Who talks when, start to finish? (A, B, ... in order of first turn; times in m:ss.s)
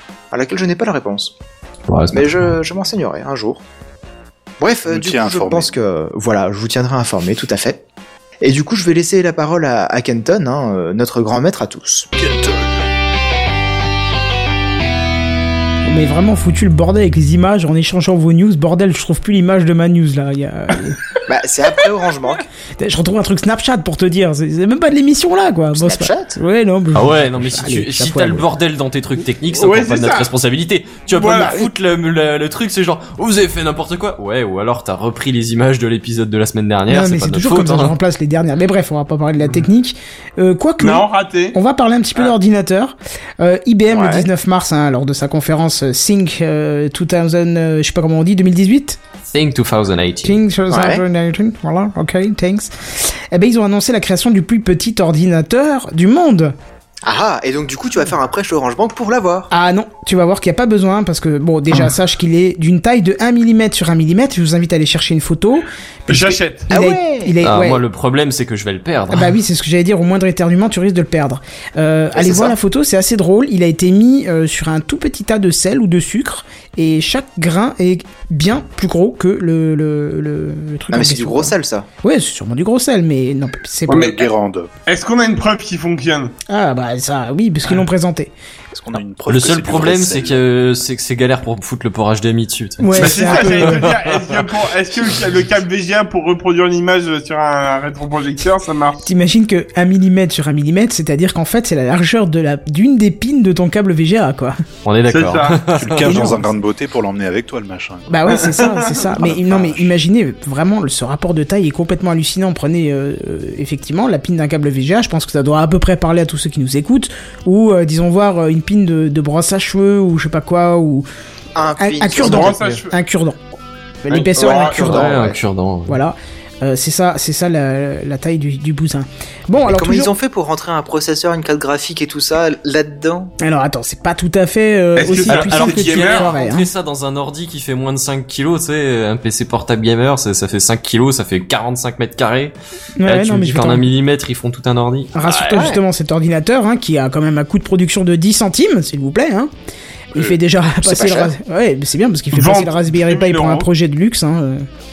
0:00.3-0:01.3 A
0:01.9-0:02.5 B
0:02.1-0:03.6 A
0:04.6-0:07.8 A
0:04.9-0:05.7 C
0:08.4-0:12.1 A
0:12.2-0:12.7 C
0:15.8-0:21.0 D
0:21.3-0:22.4 A
0:22.8-0:28.4 D
0:25.7-0:26.3 A
0:26.9-0:38.0 B
0:29.6-0:30.3 E
0:31.1-0:31.6 E
0:36.9-0:49.0 D
0:40.8-0:41.6 E
0:43.9-0:44.3 A
0:49.3-0:50.4 B
0:50.2-0:56.5 D
0:50.7-0:51.0 A
0:57.0-0:59.5 A
0:59.5-1:07.8 D
1:06.1-1:06.7 E
1:06.7-1:07.4 A
1:07.4-1:09.4 B
1:09.1-1:24.1 D
1:12.1-1:12.6 A
1:20.9-1:21.9 A
1:23.9-1:24.2 E
1:23.9-1:24.7 C
1:24.8-1:26.3 E
1:26.5-1:28.3 D
1:28.7-1:30.4 C
1:29.3-1:34.5 B
1:32.8-1:33.8 D
1:33.0-1:39.0 E
1:39.0-1:44.6 D
1:44.8-1:46.4 B
1:45.1-1:45.6 E
1:45.7-1:48.2 C
1:46.1-1:46.3 D
1:48.1-2:01.0 D
1:48.3-1:49.0 E
1:49.2-1:49.9 C
2:01.5-2:02.6 A
2:01.8-2:03.4 D
2:02.2-2:02.9 E
2:04.0-2:05.2 D
2:04.1-2:05.0 E
2:04.3-2:05.4 A
2:04.7-2:06.0 B
2:05.9-2:10.1 D
2:09.6-2:13.3 A
2:13.4-2:16.7 D
2:15.0-2:16.3 E
2:15.3-2:25.8 B
2:23.0-2:23.9 D
2:25.1-2:29.5 D
2:30.1-2:34.6 D
2:30.8-2:31.3 A
2:32.3-2:33.7 E